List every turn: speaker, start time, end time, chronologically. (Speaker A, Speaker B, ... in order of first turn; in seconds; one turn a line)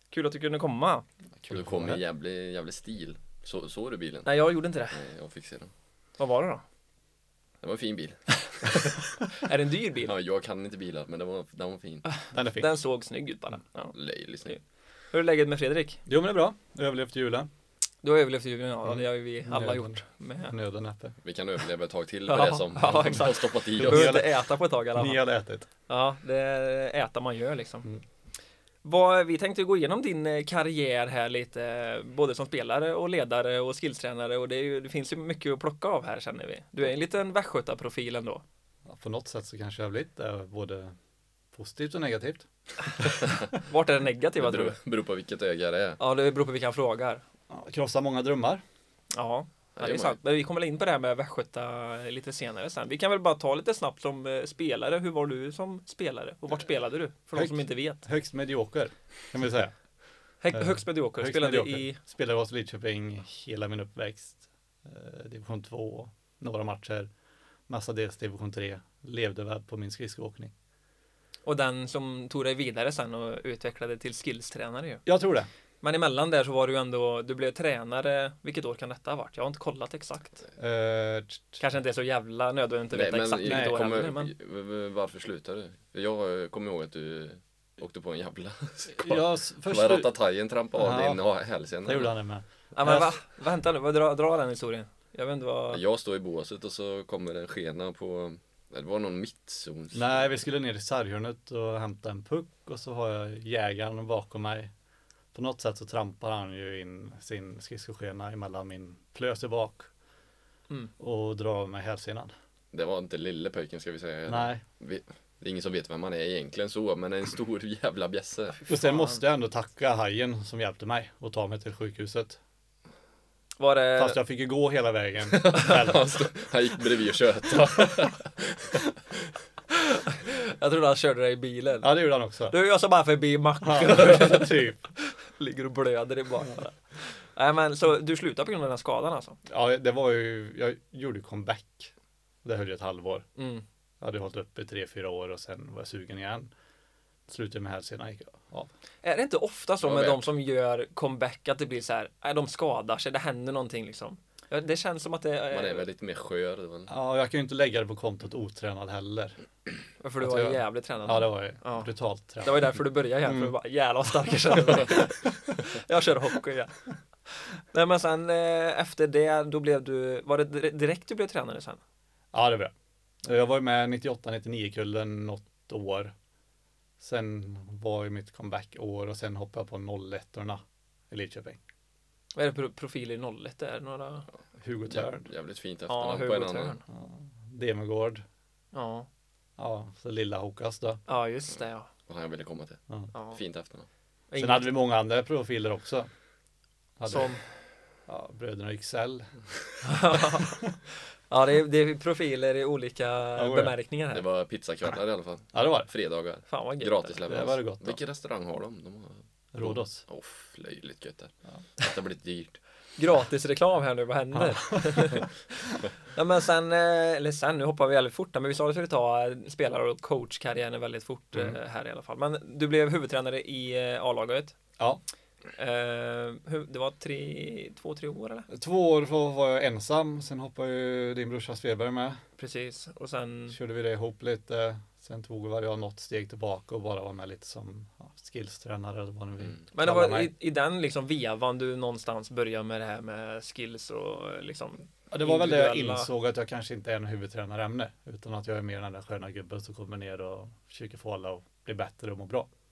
Speaker A: 0.1-1.1
Speaker B: 1.4-2.0
Speaker C: 1.5-4.3
Speaker A: 4.2-5.0
Speaker C: 4.9-5.7
Speaker A: 6.2-6.6
Speaker C: 7.6-8.3
Speaker A: 8.6-10.1
Speaker C: 10.1-12.1
Speaker A: 12.1-13.9
Speaker B: 12.3-12.7
Speaker C: 13.9-14.6
Speaker A: 15.1-16.0
Speaker B: 16.1-17.5
Speaker A: 18.0-20.5
Speaker B: 18.8-21.1
Speaker C: 21.2-24.2
Speaker A: 22.3-25.2
Speaker B: 23.8-24.4
Speaker B: 24.9-25.7
Speaker A: 25.9-27.9
Speaker A: 28.8-38.4
Speaker B: 38.9-41.0
Speaker B: 41.5-42.5
Speaker A: 43.5-44.8
Speaker C: 44.4-46.0
Speaker A: 46.0-47.2
Speaker B: 47.5-48.6
Speaker A: 49.1-58.0
Speaker C: 49.8-50.2
Speaker B: 57.4-59.7
Speaker A: 60.4-62.0
Speaker B: 60.5-67.1
Speaker B: 67.7-70.5
Speaker A: 71.4-75.0
Speaker B: 75.0-75.5
Speaker A: 75.8-80.5
Speaker B: 80.6-81.6
Speaker A: 81.6-84.3
Speaker C: 82.9-92.1
Speaker B: 83.4-83.8
Speaker B: 88.9-90.1
Speaker B: 90.8-91.2
Speaker B: 91.8-93.1
Speaker A: 92.7-95.8
Speaker C: 95.7-100.3
Speaker B: 99.9-104.7
Speaker B: 105.3-109.9
Speaker B: 111.0-112.3
Speaker C: 112.7-118.6
Speaker B: 114.3-114.6
Speaker B: 118.7-122.4
Speaker A: 118.7-119.2
Speaker A: 123.6-124.2
Speaker B: 124.0-126.1
Speaker C: 125.3-128.9
Speaker A: 129.7-131.9
Speaker B: 131.8-132.6
Speaker A: 132.5-139.4
Speaker B: 133.6-134.8
Speaker B: 139.5-141.9
Speaker B: 142.4-143.3
Speaker A: 143.4-143.6
Speaker B: 144.0-146.5
Speaker B: 147.3-148.7
Speaker A: 149.0-155.8
Speaker C: 149.8-150.3
Speaker C: 155.5-156.9
Speaker B: 156.9-159.3
Speaker A: 160.0-161.9
Speaker B: 160.2-163.5
Speaker A: 162.4-166.8
Speaker A: 167.3-171.8
Speaker B: 172.3-176.1
Speaker B: 177.0-181.6
Speaker A: 182.3-184.3
Speaker B: 184.6-185.3
Speaker C: 184.9-186.8
Speaker A: 185.9-186.8
Speaker B: 186.9-188.2
Speaker A: 188.7-189.1
Speaker B: 189.6-191.0
Speaker A: 191.1-191.9
Speaker C: 192.1-193.9
Speaker A: 193.1-193.4
Speaker A: 194.3-194.7
Speaker B: 194.4-196.1
Speaker B: 197.0-197.3
Speaker A: 197.1-197.4
Speaker B: 198.1-199.3
Speaker A: 199.8-200.7
Speaker A: 201.3-204.2
Speaker B: 203.4-203.8
Speaker C: 204.1-212.6
Speaker B: 205.5-205.9
Speaker A: 206.5-207.2
Speaker B: 207.3-208.0
Speaker B: 209.5-210.0
Speaker A: 213.0-224.6
Speaker B: 214.3-215.2
Speaker A: 225.6-228.5
Speaker B: 228.5-232.2
Speaker A: 232.4-233.6
Speaker B: 233.5-240.3
Speaker A: 239.7-246.1
Speaker B: 245.1-252.5